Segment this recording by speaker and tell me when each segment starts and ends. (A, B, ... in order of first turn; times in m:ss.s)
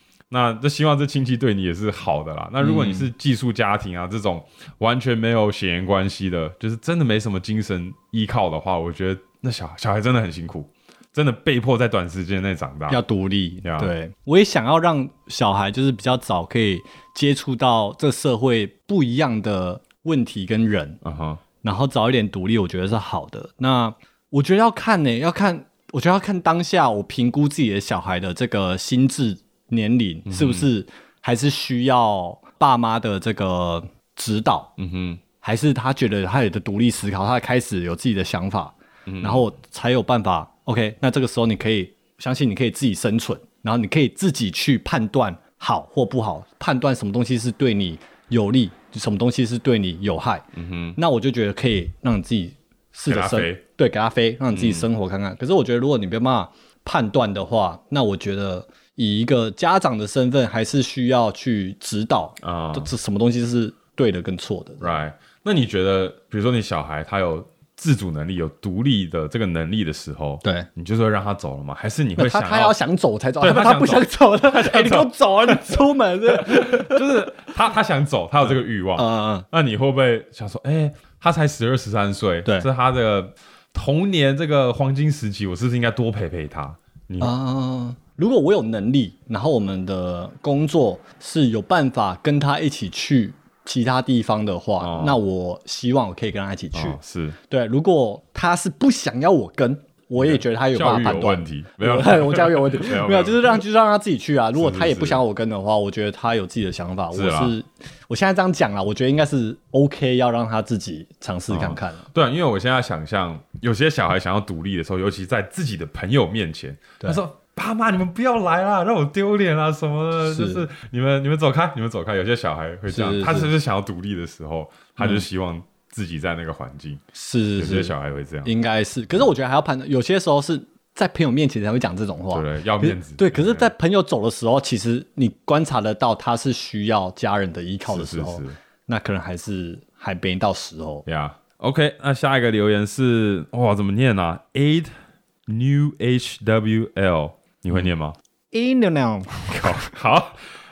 0:00.3-0:13.0 A
0:02.6-0:03.1 B
0:12.9-0:21.0 B
0:13.6-0:13.9 A
0:21.0-0:21.4 A
0:21.6-0:34.7 B
0:30.2-0:30.7 A
0:34.8-0:35.2 A
0:35.4-1:04.9 B
0:39.1-0:39.5 A
0:50.6-0:51.0 A
0:53.0-0:53.6 A
0:54.5-0:54.9 A
1:02.4-1:02.9 A
1:04.8-1:12.8 A
1:10.4-1:10.7 B
1:12.2-1:17.4 B
1:13.4-1:27.3 A
1:18.4-1:19.4 B
1:27.2-1:37.0 B
1:34.8-1:35.2 A
1:36.7-1:37.4 A
1:37.5-1:52.1 B
1:40.2-1:43.6 A
1:44.5-1:45.2 A
1:47.1-1:47.6 A
1:51.5-2:07.0 A
2:00.2-2:00.7 B
2:02.9-2:03.5 B
2:05.0-2:05.2 B
2:07.1-2:21.0 B
2:07.6-2:08.5 A
2:12.3-2:13.7 A
2:17.8-2:18.6 A
2:21.0-2:24.9 A
2:25.5-2:28.2 A
2:28.5-2:29.9 B
2:29.5-2:30.4 A